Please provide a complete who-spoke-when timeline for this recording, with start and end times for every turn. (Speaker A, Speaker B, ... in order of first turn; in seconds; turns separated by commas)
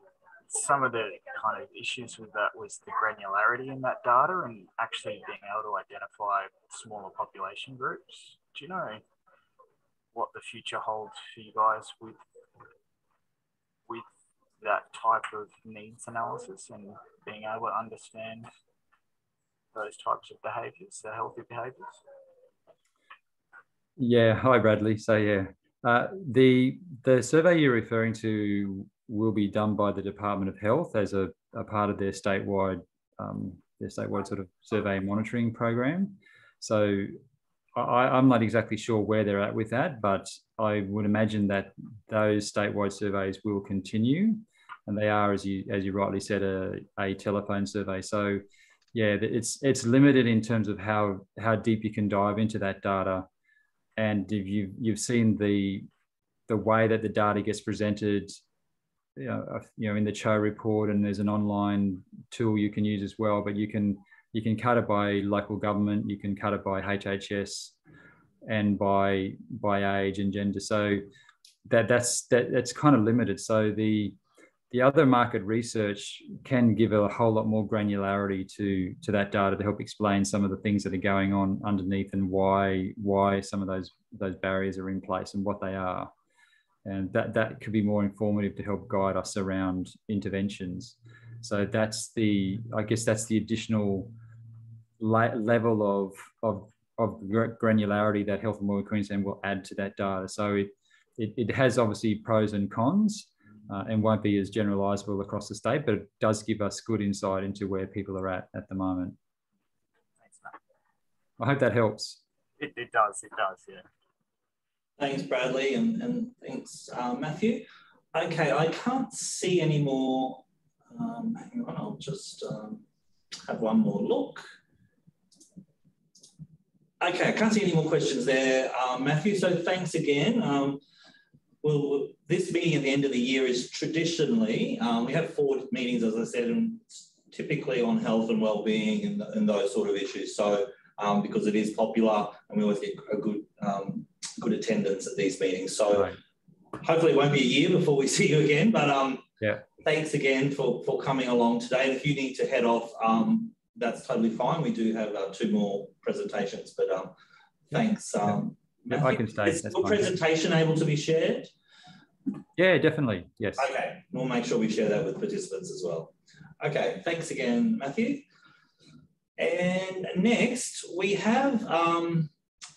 Speaker A: 0.5-9.0, Speaker A: 10.1-12.2, Speaker A: 14.6-18.5, Speaker A: 19.7-22.0, Speaker B: 24.0-37.2, Speaker B: 37.8-48.4, Speaker B: 48.9-53.3, Speaker B: 54.0-55.9, Speaker B: 56.5-58.4, Speaker B: 59.2-67.7, Speaker B: 68.5-71.0, Speaker B: 71.7-74.2, Speaker B: 74.7-86.1, Speaker B: 86.8-94.2, Speaker B: 95.0-109.2, Speaker A: 110.2-110.6, Speaker B: 111.4-112.2, Speaker A: 112.6-113.9, Speaker C: 115.0-122.8, Speaker C: 123.4-124.4, Speaker C: 127.0-130.8, Speaker C: 131.6-146.1, Speaker B: 145.9-146.2, Speaker C: 146.8-149.3, Speaker C: 149.8-157.1, Speaker C: 157.7-161.5, Speaker B: 158.9-160.2, Speaker B: 162.6-163.7, Speaker C: 163.6-168.2, Speaker C: 169.4-172.3